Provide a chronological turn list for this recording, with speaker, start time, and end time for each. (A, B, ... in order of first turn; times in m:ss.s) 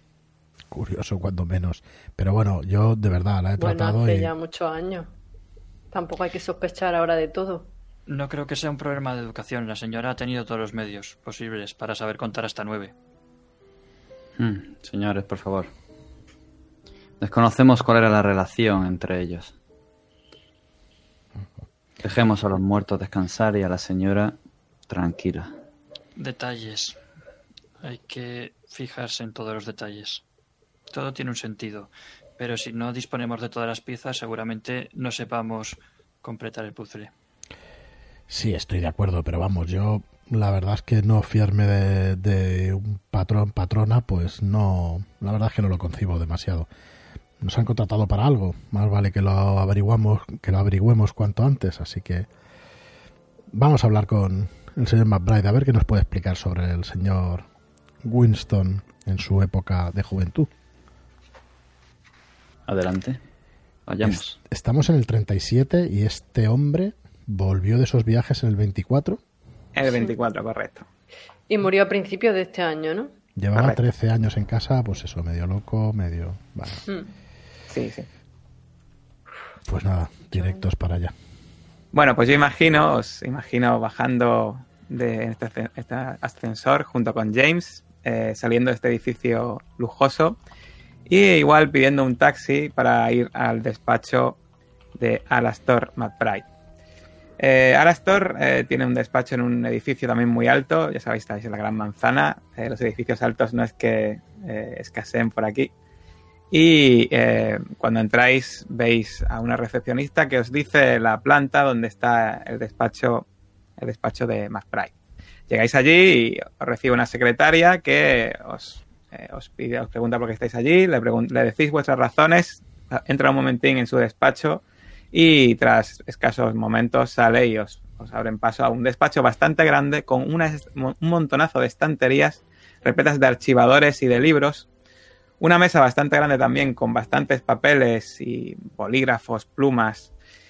0:00.7-0:04.3 A
0:03.6-0:05.1 B
0:05.9-0:07.7 B
0:08.1-0:12.9 C
0:14.4-0:15.7 D
0:17.2-0:19.5 D
0:22.0-0:24.4 D
0:24.9-0:25.5 D
0:26.2-0:27.0 C
0:27.8-0:30.2 C
0:30.9-0:37.1 C
0:38.3-0:46.7 A
0:47.4-0:52.3 A
0:53.5-0:57.4 A
0:58.0-1:00.5 A
1:02.6-1:03.2 D
1:03.8-1:04.4 D
1:04.0-1:09.2 A
1:09.7-1:10.9 E
1:11.5-1:13.1 B
1:13.4-1:16.8 A
1:17.7-1:18.1 E
1:19.6-1:21.1 A
1:20.3-1:20.6 B
1:21.9-1:30.4 E
1:31.1-1:34.4 E
1:35.0-1:36.4 E
1:37.4-1:45.7 E
1:46.5-1:53.2 E
1:53.8-1:54.9 E
1:55.5-2:14.7 E
2:15.4-2:20.1 E